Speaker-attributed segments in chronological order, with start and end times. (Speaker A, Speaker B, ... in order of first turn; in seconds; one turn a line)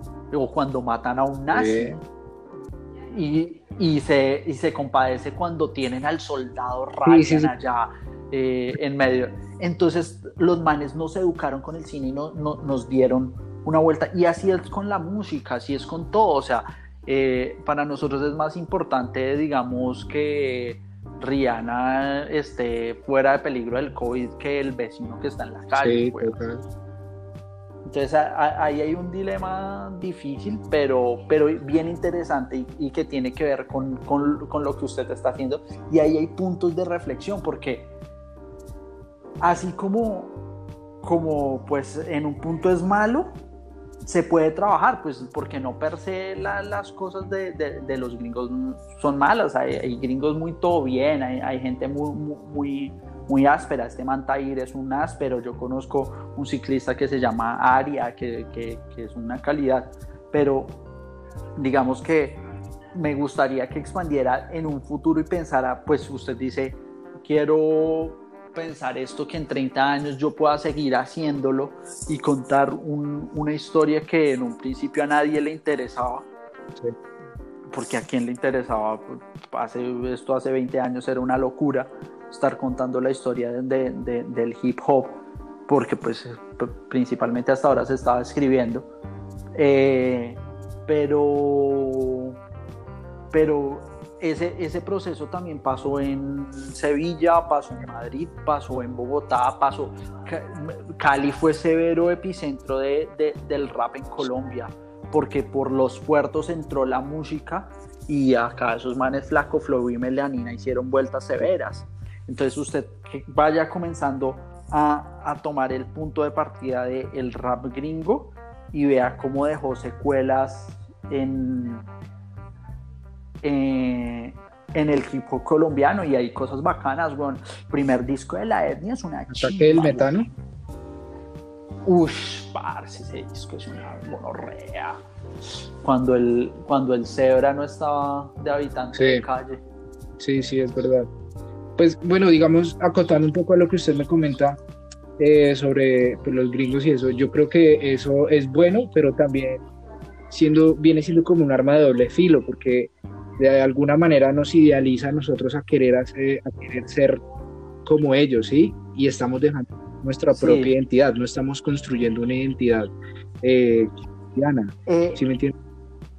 Speaker A: 0.3-2.0
Speaker B: 1.5-2.0
Speaker A: 3.1-26.4
Speaker B: 7.0-7.5
Speaker B: 25.8-26.6
Speaker A: 27.9-37.9
Speaker A: 39.4-40.4
Speaker A: 41.0-43.3
Speaker A: 44.0-60.8
Speaker A: 61.6-62.4
Speaker A: 62.9-76.3
Speaker A: 77.7-88.9
Speaker A: 89.5-92.4
Speaker A: 93.3-121.9
Speaker A: 123.4-130.1
Speaker B: 129.3-130.3
Speaker A: 131.9-135.0
Speaker A: 135.8-139.6
Speaker B: 138.9-139.2
Speaker B: 140.2-141.1
Speaker B: 141.8-144.6
Speaker B: 145.2-149.6
Speaker B: 150.3-157.2
Speaker B: 157.9-162.9
Speaker A: 160.3-160.7
Speaker B: 163.4-165.5
Speaker A: 164.9-165.2